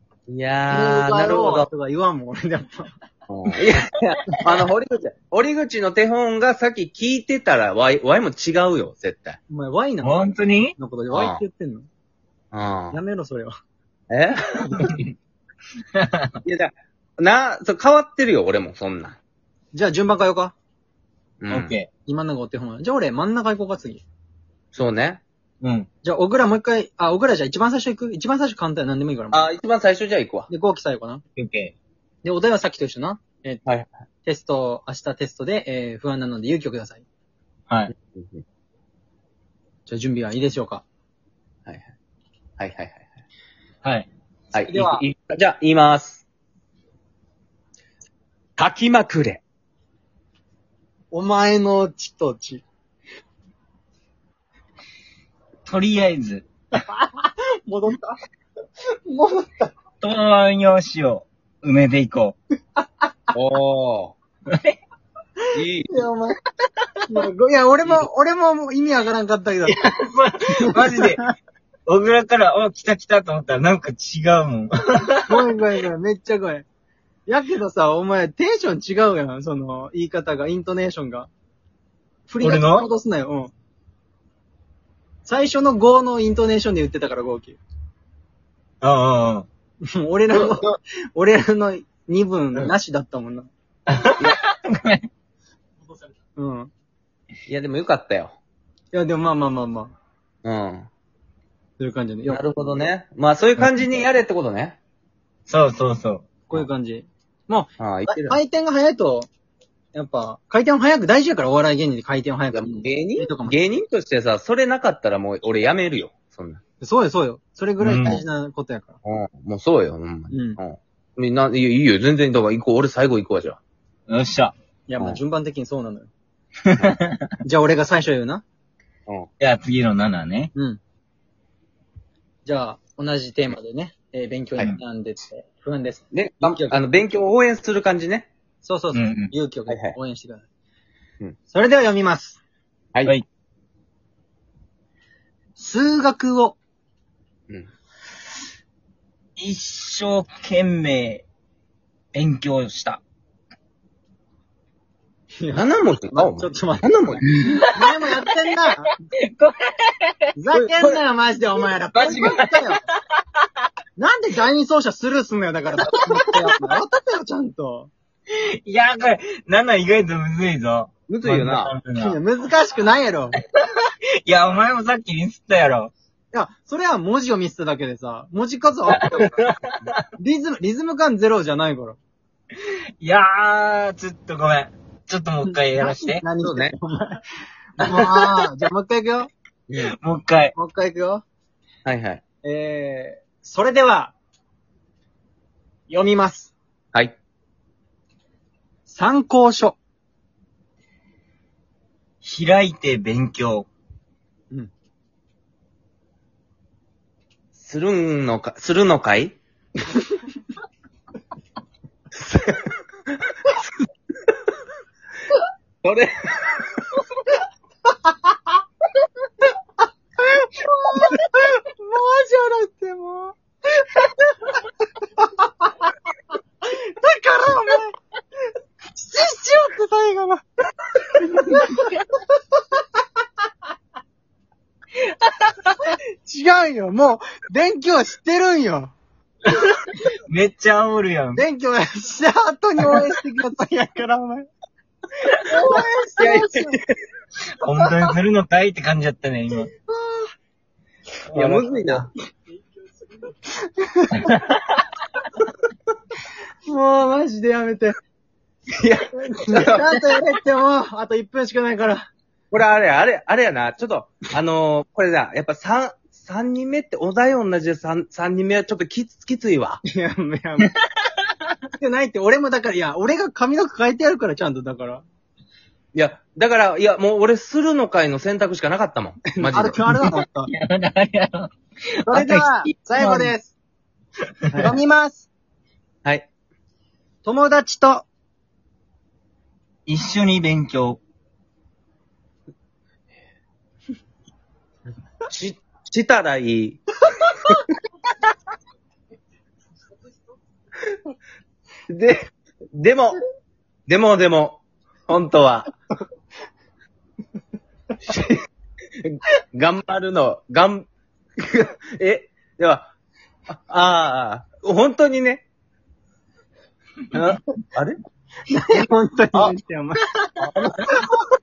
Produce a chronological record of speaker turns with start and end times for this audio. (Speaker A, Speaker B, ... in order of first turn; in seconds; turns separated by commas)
Speaker A: 0.3-1.7, Speaker B: 0.7-2.9, Speaker A: 3.3-9.4, Speaker B: 9.5-11.9, Speaker C: 10.0-10.7, Speaker A: 11.1-11.4, Speaker A: 12.5-13.0, Speaker B: 12.9-13.5, Speaker A: 14.1-14.9, Speaker C: 14.7-15.0, Speaker C: 15.9-16.3, Speaker A: 16.4-19.2, Speaker B: 19.7-20.5, Speaker A: 21.4-21.7, Speaker C: 21.5-21.9, Speaker B: 22.1-24.0, Speaker A: 24.7-25.2, Speaker C: 25.6-25.9, Speaker B: 26.0-29.5, Speaker A: 29.3-30.5, Speaker B: 30.5-31.2, Speaker C: 31.4-31.7, Speaker B: 32.2-33.6, Speaker B: 34.2-37.0, Speaker A: 38.1-38.4, Speaker B: 39.9-40.8, Speaker A: 41.6-41.9, Speaker A: 42.6-43.0, Speaker A: 44.5-46.2, Speaker B: 44.6-45.0, Speaker A: 48.6-49.4, Speaker B: 51.1-52.6, Speaker C: 55.6-56.4, Speaker B: 56.7-58.1, Speaker B: 59.0-59.7, Speaker C: 60.0-62.4, Speaker A: 63.3-64.1, Speaker C: 64.5-64.8, Speaker A: 65.5-66.0, Speaker B: 65.9-66.4, Speaker B: 67.0-69.8, Speaker C: 69.6-71.2, Speaker B: 70.5-71.3, Speaker C: 71.9-75.4, Speaker B: 75.2-76.7, Speaker B: 77.3-81.3, Speaker B: 82.3-83.5, Speaker C: 82.4-82.9, Speaker B: 85.2-87.6, Speaker C: 88.8-89.5, Speaker B: 89.8-93.5, Speaker A: 90.3-90.7, Speaker C: 93.9-95.1, Speaker B: 96.3-96.7, Speaker A: 97.5-98.3, Speaker B: 98.9-99.9, Speaker A: 100.4-100.9, Speaker B: 101.8-102.4, Speaker A: 102.3-104.8, Speaker C: 105.5-106.3, Speaker B: 106.5-109.3, Speaker A: 107.8-108.4, Speaker B: 109.9-113.6, Speaker A: 112.5-116.6, Speaker B: 116.8-119.0, Speaker C: 117.8-118.2, Speaker A: 119.0-123.6, Speaker B: 120.3-120.6, Speaker C: 124.1-124.5, Speaker B: 124.9-126.1, Speaker C: 126.7-127.3, Speaker B: 127.4-128.4, Speaker C: 129.4-130.5, Speaker B: 130.5-130.8, Speaker B: 132.4-136.8, Speaker A: 136.1-138.3, Speaker B: 138.6-140.4, Speaker C: 138.9-139.3, Speaker A: 139.7-139.9, Speaker B: 141.5-142.4, Speaker B: 145.6-146.6, Speaker C: 149.4-151.2, Speaker C: 152.1-153.0, Speaker B: 155.4-158.9, Speaker A: 155.5-157.3, Speaker C: 157.3-157.8, Speaker C: 159.1-160.3, Speaker B: 160.4-162.8, Speaker A: 160.5-161.0, Speaker C: 161.9-162.8, Speaker B: 164.0-167.9, Speaker C: 165.8-166.3, Speaker C: 168.4-172.2, Speaker A: 171.1-171.7, Speaker B: 171.9-173.4, Speaker C: 174.2-175.9, Speaker B: 176.3-179.4, Speaker C: 178.9-180.0, Speaker A: 178.9-179.2, Speaker B: 180.2-182.0, Speaker C: 183.0-186.2, Speaker B: 185.8-187.2, Speaker A: 186.4-186.7, Speaker B: 187.8-189.3, Speaker C: 187.8-188.3, Speaker C: 189.8-190.5, Speaker B: 190.5-191.2, Speaker A: 191.8-192.2, Speaker B: 192.4-194.1, Speaker B: 195.9-196.5, Speaker B: 198.9-199.8, Speaker C: 202.2-203.7, Speaker A: 207.5-209.4, Speaker A: 212.2-212.6, Speaker A: 215.8-216.7, Speaker B: 220.2-223.3, Speaker B: 225.2-225.7, Speaker B: 226.6-227.9, Speaker B: 228.9-230.4, Speaker B: 231.2-232.0, Speaker B: 235.8-238.9, Speaker C: 239.5-241.4, Speaker B: 241.3-244.5, Speaker B: 245.4-246.8, Speaker A: 245.6-246.8, Speaker C: 247.5-249.7, Speaker B: 249.8-250.3, Speaker C: 251.3-251.6, Speaker A: 251.3-252.1, Speaker B: 251.4-252.0, Speaker B: 253.5-254.3, Speaker C: 254.2-254.8, Speaker B: 256.6-257.9, Speaker A: 258.7-260.2, Speaker B: 259.4-262.1, Speaker A: 262.5-269.8, Speaker B: 269.9-270.7, Speaker C: 270.6-271.5, Speaker B: 271.8-275.0, Speaker A: 275.9-279.8, Speaker B: 279.4-280.5, Speaker C: 279.9-282.5, Speaker B: 282.1-283.5, Speaker C: 283.0-283.3, Speaker B: 284.5-285.3, Speaker B: 287.2-288.1, Speaker C: 289.9-291.0, Speaker A: 295.3-296.8, Speaker A: 301.9-303.2, Speaker A: 303.9-305.7, Speaker A: 308.1-308.3, Speaker A: 309.0-310.9, Speaker A: 311.4-312.9, Speaker A: 313.5-315.4, Speaker A: 317.1-318.0, Speaker B: 318.5-320.0, Speaker A: 320.4-321.1